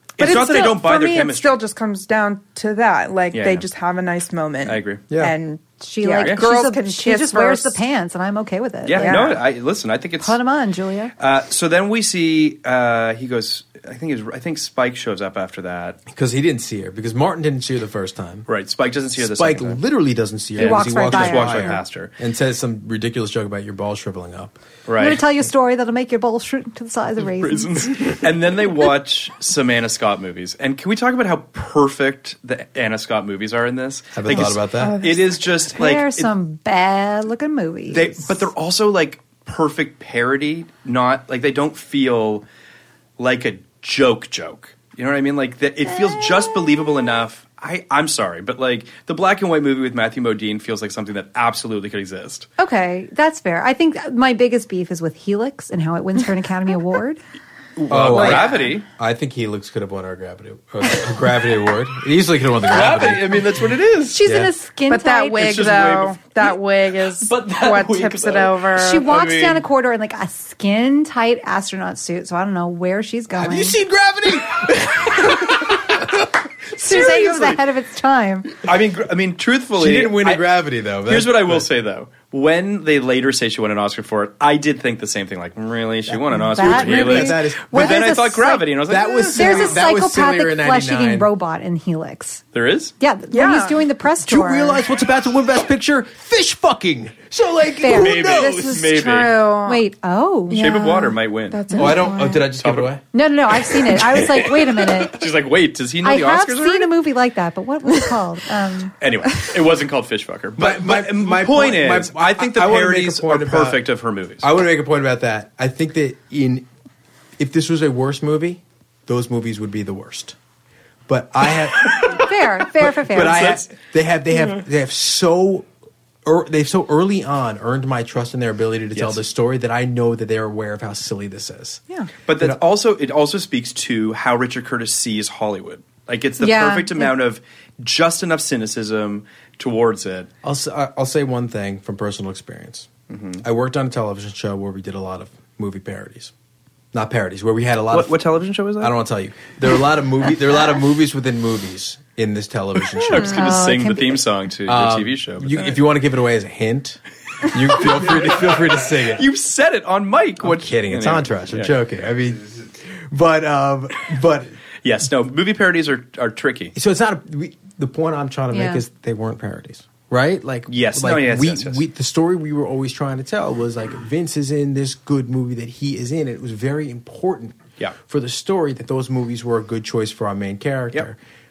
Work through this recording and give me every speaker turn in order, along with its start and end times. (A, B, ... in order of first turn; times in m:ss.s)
0:00.2-0:01.6 A
0:00.2-0:07.8 B
0:03.3-0:03.7 A
0:04.6-0:05.0 A
0:05.1-0:05.4 C
0:05.8-0:09.4 D
0:08.9-0:10.4 A
0:09.0-0:09.4 B
0:10.2-0:11.1 D
0:11.2-0:16.0 A
0:16.1-0:18.5 C
0:18.5-0:19.8 A
0:19.2-0:24.6 C
0:20.6-0:22.1 A
0:20.6-0:21.8 D
0:24.9-0:25.2 A
0:25.0-0:28.1 D
0:27.2-0:36.3 A
0:34.1-0:35.0 C
0:34.3-0:35.4 B
0:35.7-0:38.5 D
0:37.9-0:42.4 A
0:43.2-0:52.5 A
0:52.6-0:57.2 D
0:57.8-0:58.9 A
0:57.9-1:03.7 C
1:02.7-1:04.3 A
1:04.1-1:05.6 D
1:04.2-1:04.5 C
1:04.9-1:09.1 B
1:05.4-1:06.5 A
1:07.2-1:09.6 A
1:08.8-1:13.8 D
1:13.4-1:16.2 C
1:16.8-1:18.5 D
1:16.9-1:17.3 A
1:16.9-1:17.3 C
1:18.6-1:29.7 A
1:19.8-1:21.7 C
1:26.1-1:28.2 C
1:26.5-1:28.7 D
1:28.9-1:31.3 C
1:29.3-1:32.4 D
1:32.5-1:32.9 A
1:33.0-1:34.8 D
1:33.3-1:33.9 B
1:34.2-1:38.8 C
1:37.8-1:40.6 D
1:37.9-1:39.5 A
1:38.9-1:39.8 B
1:40.5-1:42.5 B
1:40.5-1:43.0 A
1:41.8-1:43.0 C
1:43.1-1:45.3 D
1:43.7-1:46.9 A
1:46.0-1:48.9 D
1:49.0-1:54.5 A
1:50.6-1:53.8 C
1:54.4-1:56.7 C
1:57.4-2:00.4 C
2:01.1-2:02.2 C
2:01.8-2:02.2 A
2:02.1-2:03.6 D
2:02.8-2:03.7 A
2:02.8-2:05.7 C
2:06.2-2:11.8 C
2:08.9-2:09.2 A
2:12.3-2:20.3 A
2:12.3-2:12.6 C
2:16.4-2:17.1 D
2:20.4-2:22.9 C
2:23.1-2:23.4 A
2:23.4-2:26.3 C
2:26.9-2:28.2 C
2:27.9-2:29.0 A
2:28.8-2:33.6 C
2:32.9-2:35.8 A
2:33.2-2:34.2 D
2:34.7-2:39.3 C
2:37.8-2:41.8 A
2:40.4-2:44.5 C
2:44.8-2:46.7 A
2:46.7-3:01.2 C
2:48.5-2:48.8 D
2:50.7-2:51.8 A